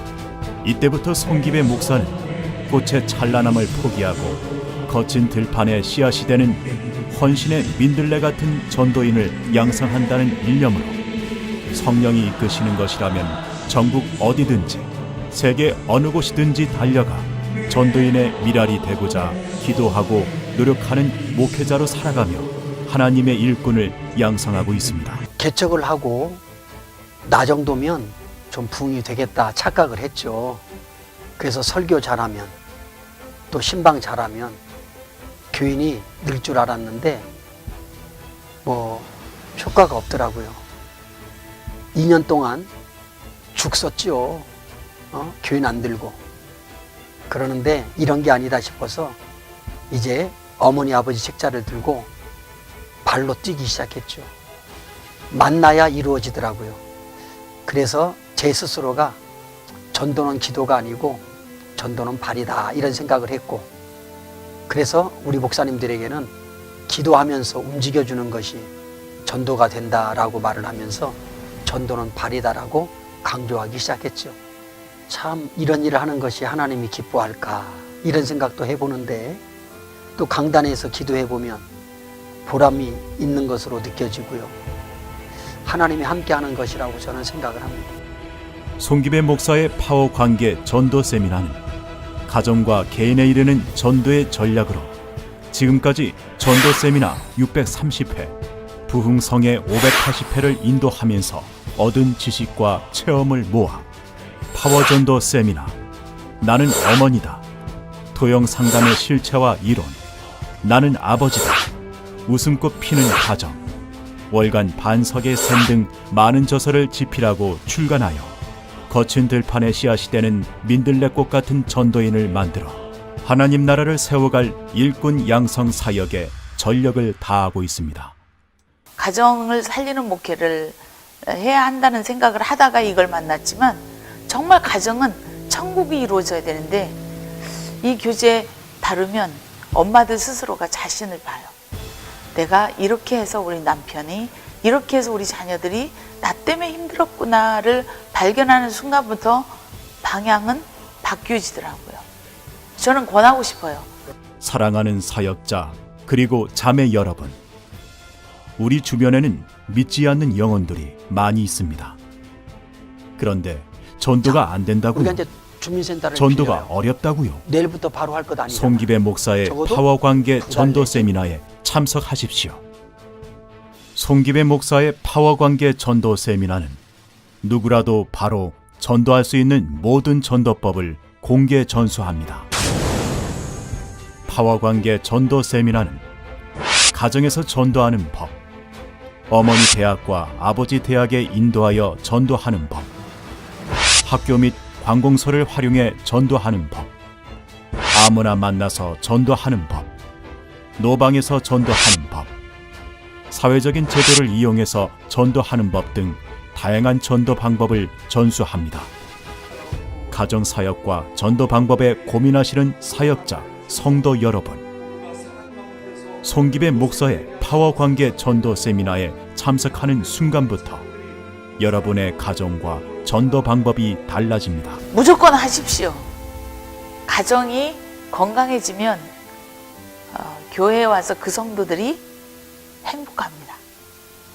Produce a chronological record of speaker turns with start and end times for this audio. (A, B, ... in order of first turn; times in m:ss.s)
0:00.6-0:11.0 A
0:11.7-0:25.2 A
0:25.4-0:26.4 B
0:27.2-0:30.6 B
0:31.4-0:32.6 B
0:33.5-0:34.6 B
0:35.5-0:37.3 B
0:38.6-0:40.6 B
0:41.9-0:42.7 B
0:43.5-0:44.5 B
0:45.1-0:46.2 B
0:47.3-0:49.2 B
0:49.9-0:52.1 B
0:53.0-0:54.3 B
0:55.3-0:56.8 B
0:57.7-0:59.2 B
0:59.9-1:01.2 B
1:01.8-1:03.7 B
1:04.7-1:06.3 B
1:06.9-1:08.7 B
1:09.2-1:14.4 B
1:15.1-1:19.4 B
1:20.2-1:21.7 B
1:22.4-1:24.6 B
1:25.6-1:27.9 B
1:28.8-1:31.6 A
1:32.3-1:35.0 A
1:35.5-1:38.4 A
1:38.9-1:43.9 A
1:44.5-1:45.8 A
1:46.4-1:47.4 A
1:48.1-1:50.0 A
1:50.6-1:51.7 A
1:52.3-1:53.6 A
1:54.3-1:58.4 A
1:58.9-2:08.2 A
2:09.0-2:21.5 C
2:22.4-2:32.0 C
2:32.8-2:33.9 C
2:34.4-2:37.4 A
2:38.6-2:42.0 A
2:43.2-2:45.2 A
2:44.9-2:46.7 B
2:46.2-2:47.4 A
2:47.4-2:48.9 B
2:48.5-2:52.6 A
2:49.4-2:49.8 B
2:50.4-2:51.1 B
2:54.0-2:56.8 A
2:57.4-3:02.5 A
3:04.3-3:06.0 A
3:06.9-3:08.4 A
3:09.3-3:12.9 A
3:14.0-3:16.9 A
3:17.9-3:19.9 A
3:20.8-3:22.3 A
3:23.3-3:28.9 A
3:30.1-3:34.6 A
3:36.2-3:40.9 A
3:41.6-3:44.8 A
3:44.9-3:46.1 C
3:47.1-3:49.1 C
3:50.1-3:52.0 C
3:52.8-3:53.6 C